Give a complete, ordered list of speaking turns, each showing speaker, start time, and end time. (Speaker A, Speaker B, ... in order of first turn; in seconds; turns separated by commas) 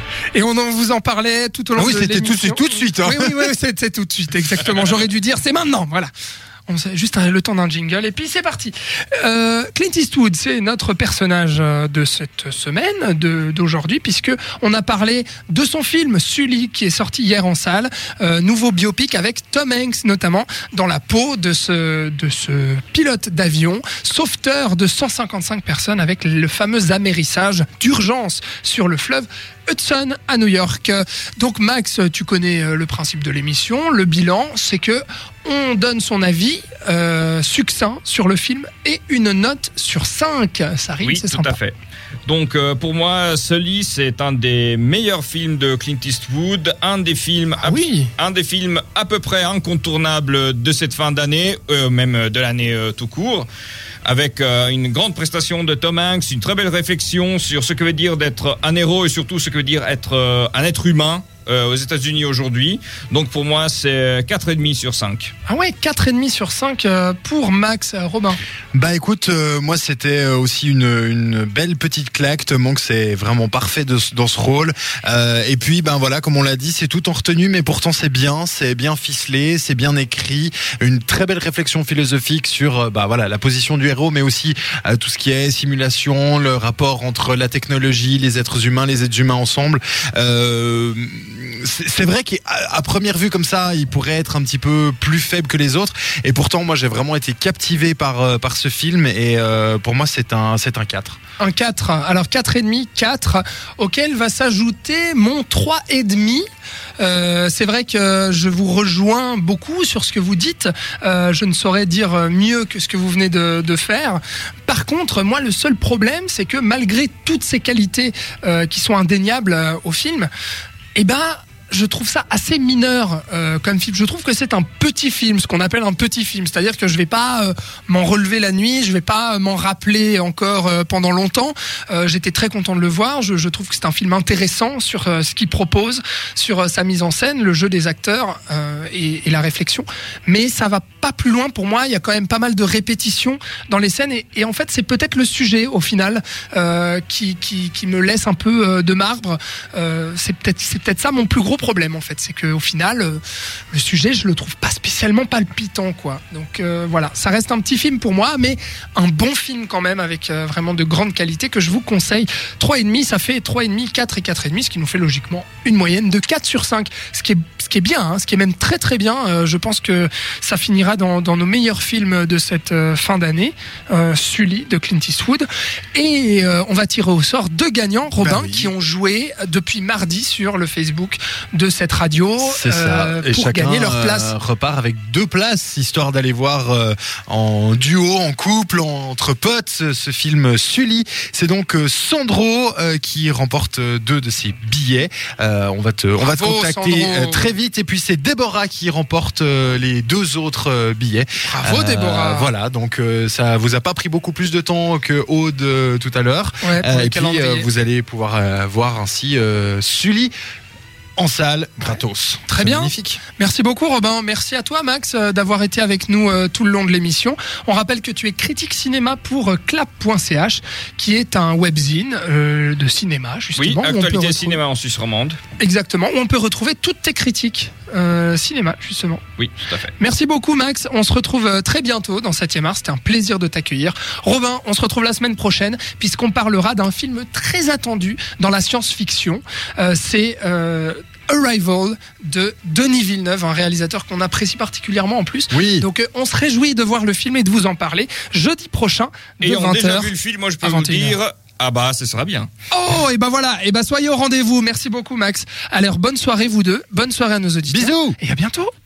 Speaker A: 0.3-6.1, Speaker B: 1.8-3.5, Speaker A: 6.7-41.6, Speaker C: 41.0-41.7, Speaker C: 42.2-53.5, Speaker A: 47.6-48.1, Speaker C: 54.0-65.3, Speaker A: 65.5-68.4, Speaker B: 68.7-101.2, Speaker A: 101.4-106.5, Speaker A: 107.0-120.3, Speaker A: 120.9-153.2, Speaker A: 153.7-184.3, Speaker B: 178.2-178.7, Speaker B: 182.4-210.3, Speaker A: 196.2-197.5, Speaker A: 201.4-202.5, Speaker A: 206.6-207.7, Speaker B: 211.2-213.2, Speaker A: 212.5-224.6, Speaker C: 223.6-225.4, Speaker A: 225.6-229.2, Speaker C: 229.4-229.9, Speaker A: 230.0-251.2, Speaker B: 245.5-245.8, Speaker C: 249.4-252.5, Speaker A: 252.7-258.7, Speaker B: 257.7-258.2